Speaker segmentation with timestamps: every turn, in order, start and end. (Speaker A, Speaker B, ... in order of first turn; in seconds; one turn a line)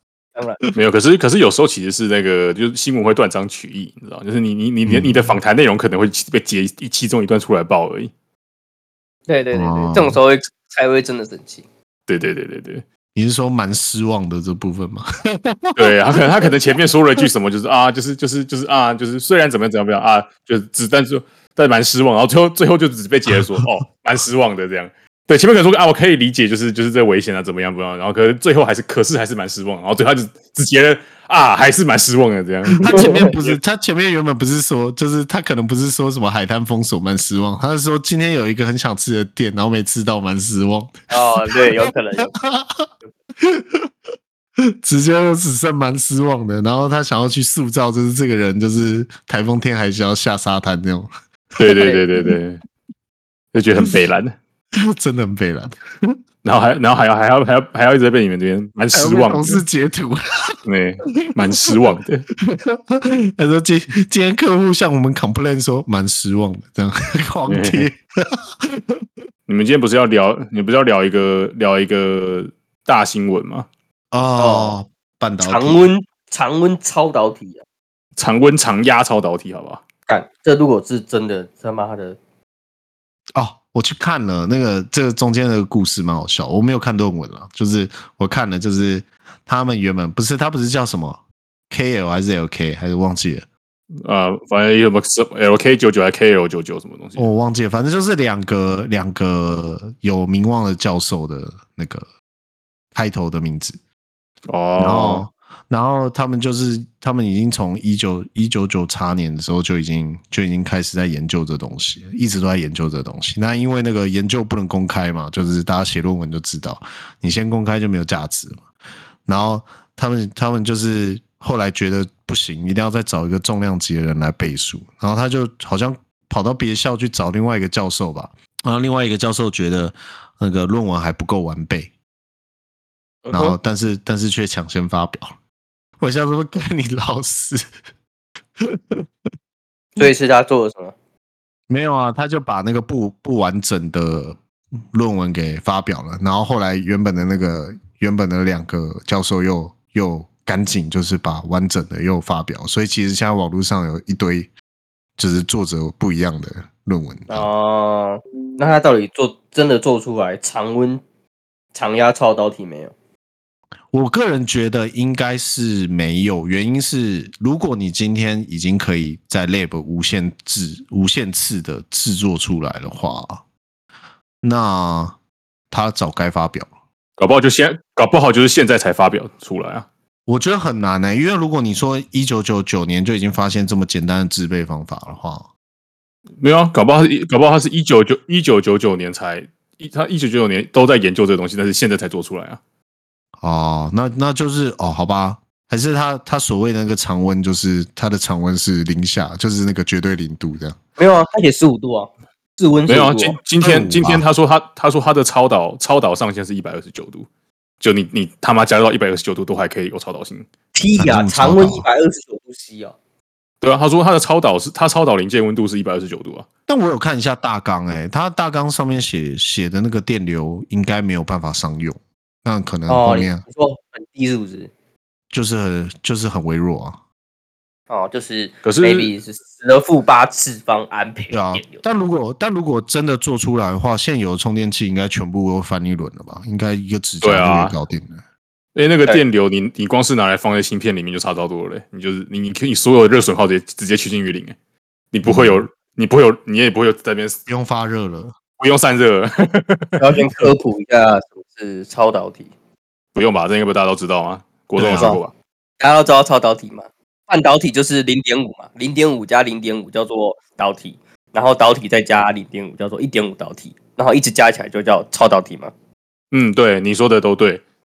Speaker A: 0.4-0.6
Speaker B: 0.8-8.1
Speaker C: 4.9-5.4
Speaker A: 9.3-11.6
Speaker C: 9.5-10.2
Speaker B: 12.1-12.8
Speaker C: 13.1-16.5
Speaker B: 15.8-33.6
Speaker C: 23.3-23.6
Speaker C: 32.8-42.9
Speaker A: 32.8-33.3
Speaker A: 41.1-42.3
Speaker C: 43.4-43.9
Speaker C: 44.8-52.3
Speaker B: 51.6-52.6
Speaker B: 53.5-54.4
Speaker C: 54.9-56.1
Speaker B: 56.4-59.6
Speaker C: 58.9-60.6
Speaker B: 60.6-62.3
Speaker C: 61.2-61.8
Speaker C: 62.4-69.0
Speaker B: 67.5-67.9
Speaker B: 69.5-73.7
Speaker C: 74.1-75.9
Speaker A: 74.4-74.8
Speaker A: 75.4-77.6
Speaker B: 78.2-79.8
Speaker A: 80.1-82.2
Speaker C: 83.3-93.5
Speaker B: 94.0-97.3
Speaker C: 97.2-102.1
Speaker C: 103.0-103.8
Speaker B: 104.5-105.2
Speaker C: 104.8-118.6
Speaker C: 119.2-131.9
Speaker A: 133.2-133.6
Speaker C: 133.3-135.3
Speaker C: 136.0-137.6
Speaker C: 138.6-139.0
Speaker A: 140.0-140.9
Speaker C: 141.7-144.4
Speaker C: 144.9-154.5
Speaker C: 155.2-157.5
Speaker A: 157.3-161.0
Speaker A: 161.7-162.9
Speaker C: 163.9-173.4
Speaker C: 174.4-175.2
Speaker C: 175.7-176.7
Speaker B: 177.2-179.9
Speaker C: 180.3-185.5
Speaker B: 186.4-192.6
Speaker C: 193.4-200.8
Speaker A: 201.0-203.4
Speaker B: 202.9-207.3
Speaker C: 203.6-204.2
Speaker B: 207.8-210.5
Speaker A: 210.8-212.9
Speaker C: 211.0-211.9
Speaker B: 213.6-216.4
Speaker C: 216.7-223.4
Speaker A: 222.9-224.7
Speaker C: 225.3-227.0
Speaker A: 227.9-231.8
Speaker B: 228.6-229.1
Speaker C: 231.3-238.2
Speaker B: 237.2-237.8
Speaker B: 238.8-244.6
Speaker B: 245.1-247.4
Speaker C: 245.2-245.6
Speaker C: 247.5-248.3
Speaker B: 248.6-250.1
Speaker A: 250.0-252.5
Speaker B: 253.1-255.3
Speaker C: 254.8-255.2
Speaker A: 255.8-265.7
Speaker B: 266.3-267.6